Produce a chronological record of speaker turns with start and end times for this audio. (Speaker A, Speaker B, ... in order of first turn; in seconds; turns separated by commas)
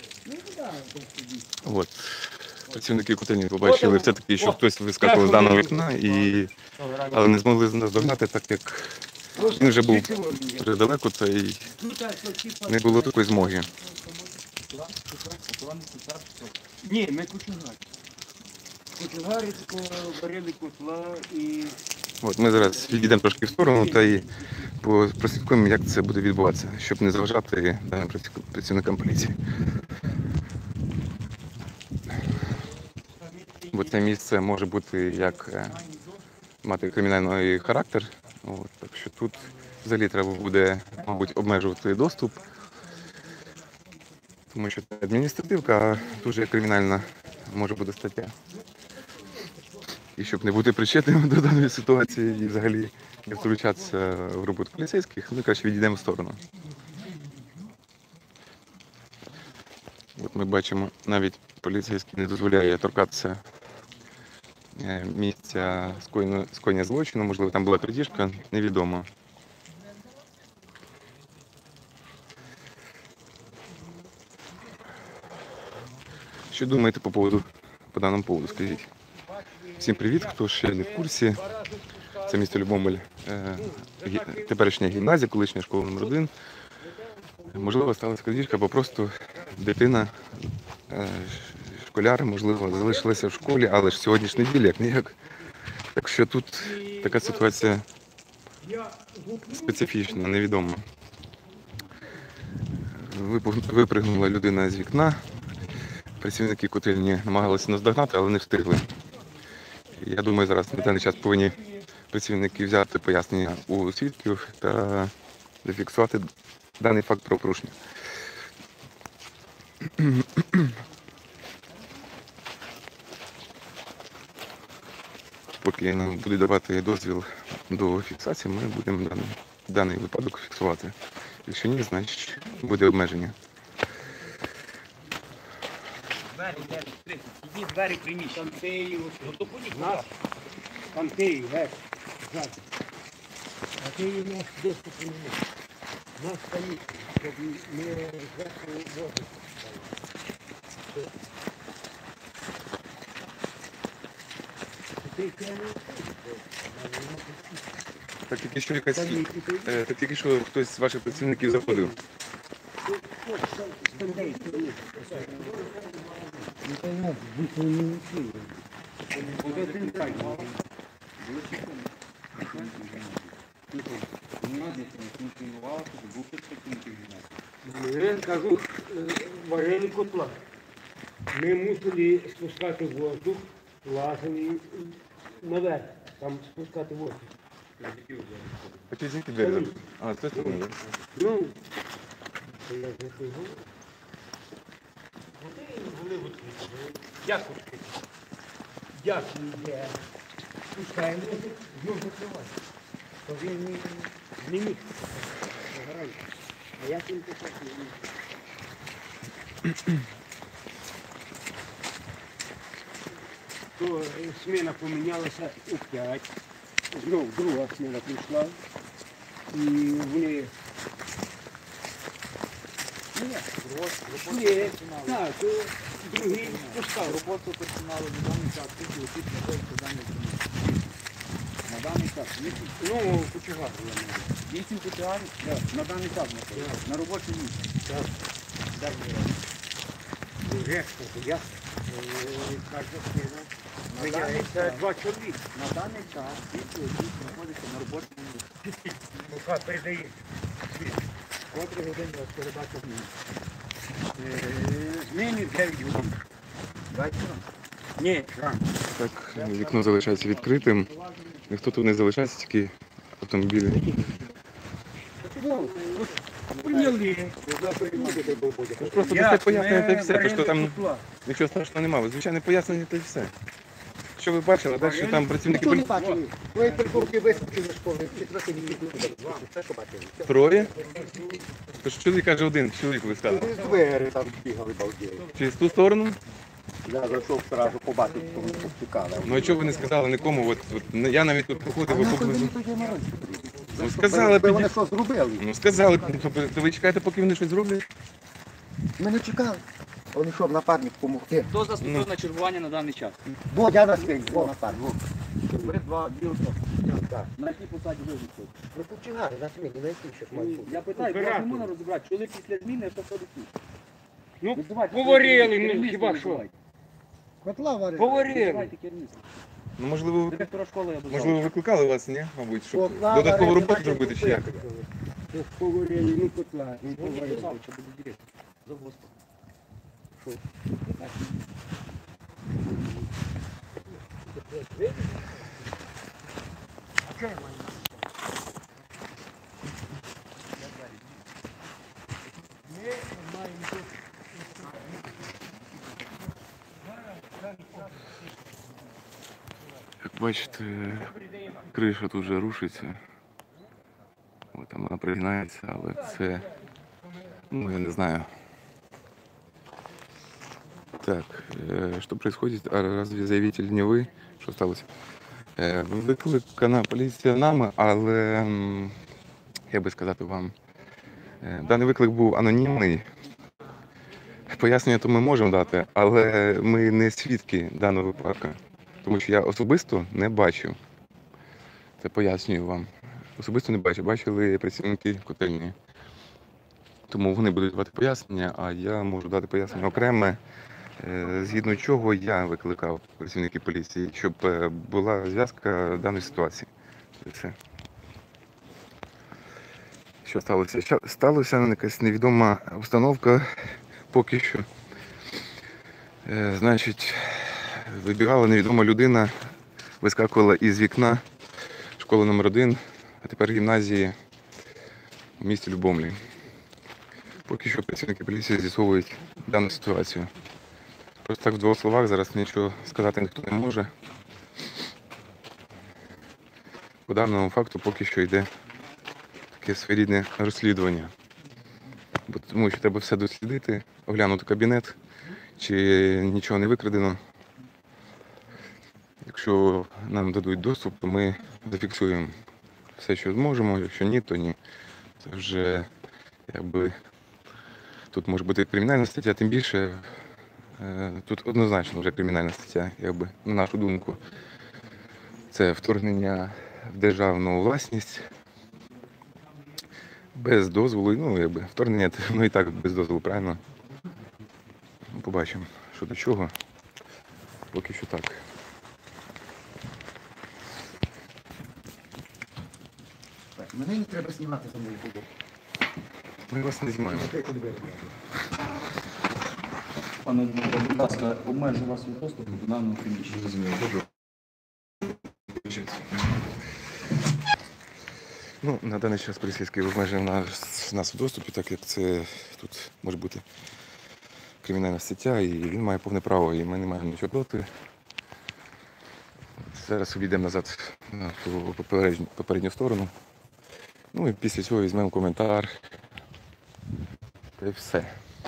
Speaker A: 0.2-1.5, Speaker B: 1.6-6.5, Speaker A: 3.6-6.1, Speaker A: 6.8-7.3, Speaker B: 7.1-11.7, Speaker A: 9.3-10.7, Speaker A: 11.8-13.7, Speaker B: 12.7-13.7, Speaker C: 14.7-16.5, Speaker A: 16.8-17.8, Speaker A: 18.9-21.8, Speaker B: 22.2-24.3, Speaker A: 22.5-24.6, Speaker B: 24.8-29.4, Speaker A: 33.2-34.0, Speaker B: 33.7-35.8, Speaker B: 36.6-42.4, Speaker B: 44.5-48.3, Speaker B: 50.2-56.4, Speaker B: 60.2-63.4, Speaker B: 64.8-69.1, Speaker B: 76.5-78.9, Speaker A: 78.5-83.0, Speaker B: 79.7-81.4, Speaker B: 82.2-86.3, Speaker A: 83.5-84.9, Speaker A: 86.8-89.5, Speaker B: 87.5-90.1, Speaker B: 90.9-95.1, Speaker A: 92.7-94.2, Speaker B: 95.9-97.8, Speaker A: 96.6-97.5, Speaker A: 98.6-100.0, Speaker B: 99.5-100.8, Speaker B: 102.9-105.2, Speaker B: 106.2-108.8, Speaker B: 110.0-115.1, Speaker B: 115.6-116.3, Speaker B: 116.8-117.8, Speaker B: 120.0-120.7, Speaker B: 125.6-133.3, Speaker C: 136.3-140.1, Speaker A: 136.4-136.8, Speaker A: 138.3-140.1, Speaker A: 140.9-142.6, Speaker A: 143.8-145.4, Speaker A: 146.2-149.9, Speaker A: 155.0-157.6, Speaker B: 158.3-161.9, Speaker A: 158.9-159.8, Speaker A: 161.2-161.9, Speaker A: 162.8-165.9, Speaker C: 163.8-166.5, Speaker A: 166.6-168.6, Speaker C: 169.1-170.6, Speaker A: 169.4-170.5, Speaker C: 171.2-173.3, Speaker A: 172.4-172.7, Speaker A: 173.7-174.1, Speaker C: 174.4-177.3, Speaker A: 177.6-180.4, Speaker A: 181.3-188.6, Speaker B: 188.9-190.8, Speaker A: 189.4-189.8, Speaker A: 190.3-190.6, Speaker A: 191.2-191.6, Speaker A: 192.7-193.6, Speaker A: 195.4-198.0, Speaker A: 198.9-200.0, Speaker A: 200.7-202.5, Speaker A: 203.2-206.2, Speaker A: 206.8-208.1, Speaker A: 213.8-216.3, Speaker A: 216.9-218.6, Speaker A: 219.5-220.5, Speaker C: 223.1-225.3, Speaker A: 224.1-227.2, Speaker C: 226.1-230.9, Speaker C: 231.6-232.8, Speaker A: 232.8-234.3, Speaker C: 234.5-237.7, Speaker A: 236.5-236.8, Speaker A: 237.8-238.1, Speaker A: 238.8-239.1, Speaker C: 238.8-239.3, Speaker A: 240.4-245.5, Speaker C: 243.9-244.9, Speaker C: 245.5-248.4, Speaker A: 248.7-250.2, Speaker C: 251.5-253.1, Speaker A: 254.2-256.1, Speaker C: 256.9-257.4, Speaker A: 258.0-258.6, Speaker B: 258.9-260.9, Speaker C: 259.2-261.4, Speaker B: 261.5-263.8, Speaker C: 265.2-268.5, Speaker A: 265.4-266.1, Speaker A: 266.6-268.2, Speaker D: 267.6-269.2, Speaker B: 268.8-273.3, Speaker A: 269.0-271.1, Speaker B: 274.2-275.9, Speaker A: 274.7-277.4, Speaker D: 275.5-280.7, Speaker A: 278.2-279.4, Speaker B: 280.2-280.7, Speaker A: 280.8-281.4, Speaker B: 281.8-283.5, Speaker D: 283.3-285.3, Speaker A: 283.3-283.8, Speaker B: 285.3-286.2, Speaker D: 286.8-289.8, Speaker C: 287.6-289.8, Speaker A: 288.2-288.6, Speaker B: 289.2-292.5, Speaker A: 289.5-290.0, Speaker D: 291.8-296.0, Speaker B: 293.7-294.7, Speaker B: 295.4-297.8, Speaker D: 299.0-301.5, Speaker C: 301.4-303.2, Speaker B: 301.8-302.1, Speaker D: 303.5-304.9, Speaker C: 303.8-308.5, Speaker D: 306.9-307.3, Speaker D: 308.7-310.8, Speaker A: 310.3-311.7, Speaker C: 310.6-313.5, Speaker A: 314.4-316.4, Speaker C: 314.5-316.5, Speaker D: 317.4-318.2, Speaker A: 317.9-318.7, Speaker C: 317.9-319.3, Speaker B: 319.8-320.5, Speaker C: 320.3-321.5, Speaker B: 321.1-324.6, Speaker D: 322.7-324.8, Speaker A: 325.3-327.5, Speaker C: 326.8-329.1, Speaker A: 334.5-335.1, Speaker A: 337.0-337.9, Speaker A: 342.7-344.8, Speaker A: 347.4-347.8, Speaker B: 350.0-353.0, Speaker B: 354.5-356.5, Speaker B: 357.5-358.3, Speaker B: 361.0-364.9, Speaker B: 365.6-368.9, Speaker B: 369.7-370.5, Speaker B: 371.4-373.0, Speaker B: 374.5-380.8, Speaker B: 382.0-385.7, Speaker B: 387.1-390.4, Speaker B: 391.0-396.7, Speaker B: 397.2-397.6, Speaker B: 400.2-403.5, Speaker B: 404.1-404.6, Speaker B: 406.2-409.3, Speaker B: 410.0-411.2, Speaker B: 412.0-414.1, Speaker B: 415.4-416.2, Speaker B: 417.5-420.3, Speaker B: 421.2-423.9, Speaker B: 427.1-428.5, Speaker B: 429.5-431.1, Speaker B: 432.3-434.9, Speaker B: 435.6-437.2, Speaker B: 439.2-442.3, Speaker B: 443.0-444.6, Speaker B: 445.2-445.9, Speaker B: 446.5-446.9, Speaker B: 448.1-450.0, Speaker B: 450.8-454.2, Speaker B: 455.5-458.3, Speaker B: 460.3-463.6, Speaker B: 465.1-466.5, Speaker B: 467.7-468.4, Speaker D: 473.6-475.2, Speaker B: 476.5-477.4, Speaker D: 477.1-478.1, Speaker C: 480.2-484.0, Speaker B: 488.6-493.4, Speaker B: 494.6-497.7, Speaker B: 499.7-503.1, Speaker B: 504.1-505.7, Speaker B: 507.6-508.1